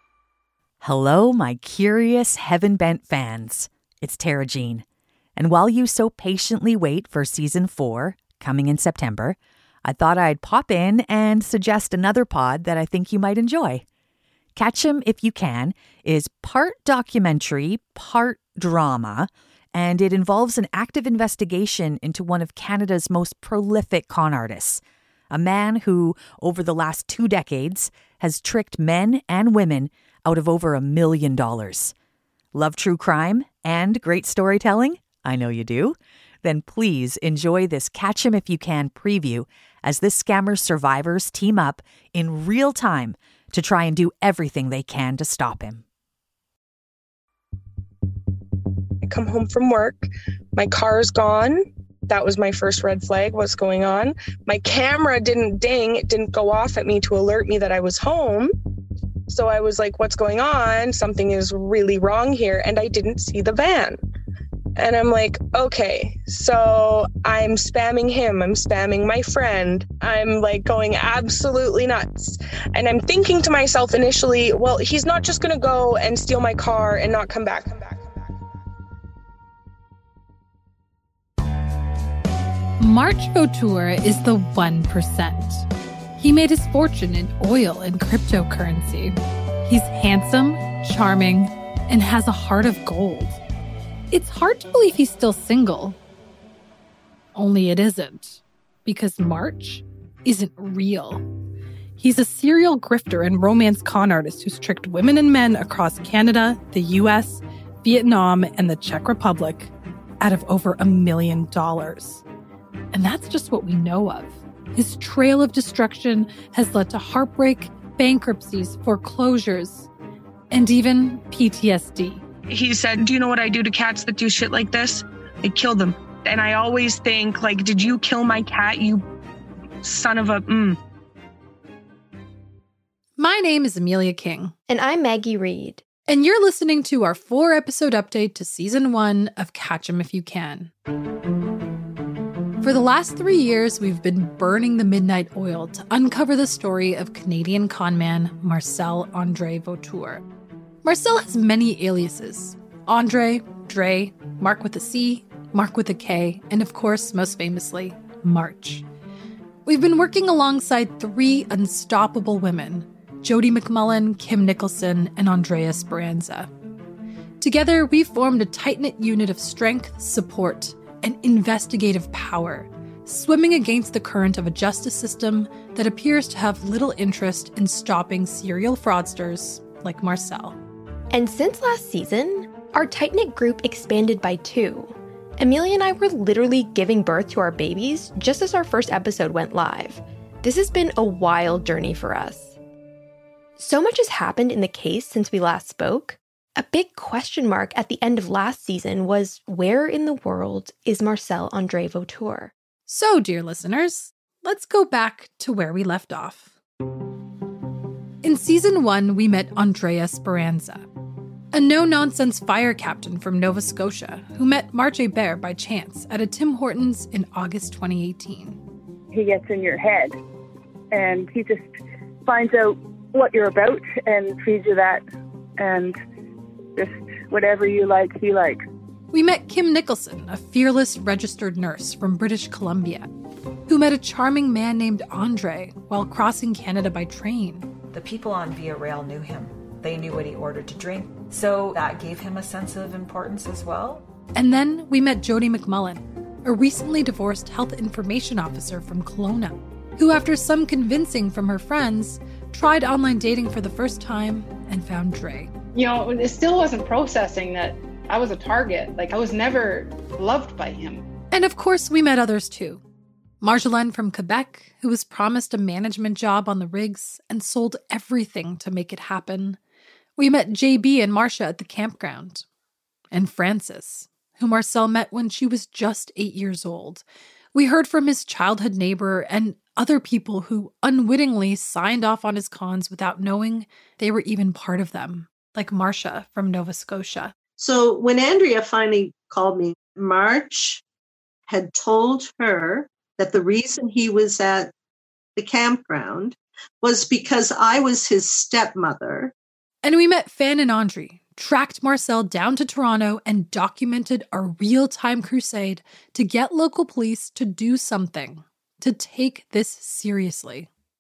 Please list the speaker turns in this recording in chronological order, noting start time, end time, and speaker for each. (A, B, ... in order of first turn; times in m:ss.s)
0:00.8-0:04.8 A
0:05.4-0:13.8 A
0:14.6-0:31.9 A
0:32.5-0:45.8 A
0:49.0-0:58.5 B
0:59.3-1:04.0 B
1:04.8-1:18.2 B
1:22.8-1:25.7 C
1:26.2-1:33.4 C
1:34.1-1:36.0 C
1:37.4-1:41.2 C
1:42.0-1:52.2 C
1:52.9-1:59.9 C
2:00.5-2:02.2 C
2:02.5-2:09.0 B
2:09.8-2:10.8 B
2:13.2-2:14.5 C
2:14.7-2:15.8 D
2:16.1-2:20.7 C
2:22.6-2:30.2 C
2:30.8-2:38.8 C
2:39.7-2:46.5 C
2:47.4-3:00.6 C
3:01.1-3:12.6 D
3:13.6-3:22.5 D
3:22.9-3:26.5 C
3:28.2-3:30.9 C
3:31.5-3:38.6 C
3:39.1-3:40.2 E
3:40.9-3:41.7 E
3:42.2-3:45.0 E
3:45.6-3:46.0 E
3:46.8-3:48.6 E
3:49.1-3:53.1 C
3:53.7-3:57.7 C
3:57.9-4:04.0 F
4:04.4-4:15.5 C
4:15.8-4:21.0 G
4:21.3-4:22.8 C
4:23.4-4:29.6 C
4:30.2-4:32.4 C
4:33.1-4:47.3 C
4:47.6-4:50.8 H
4:51.5-4:54.7 H
4:55.4-4:59.3 H
4:59.8-5:10.7 C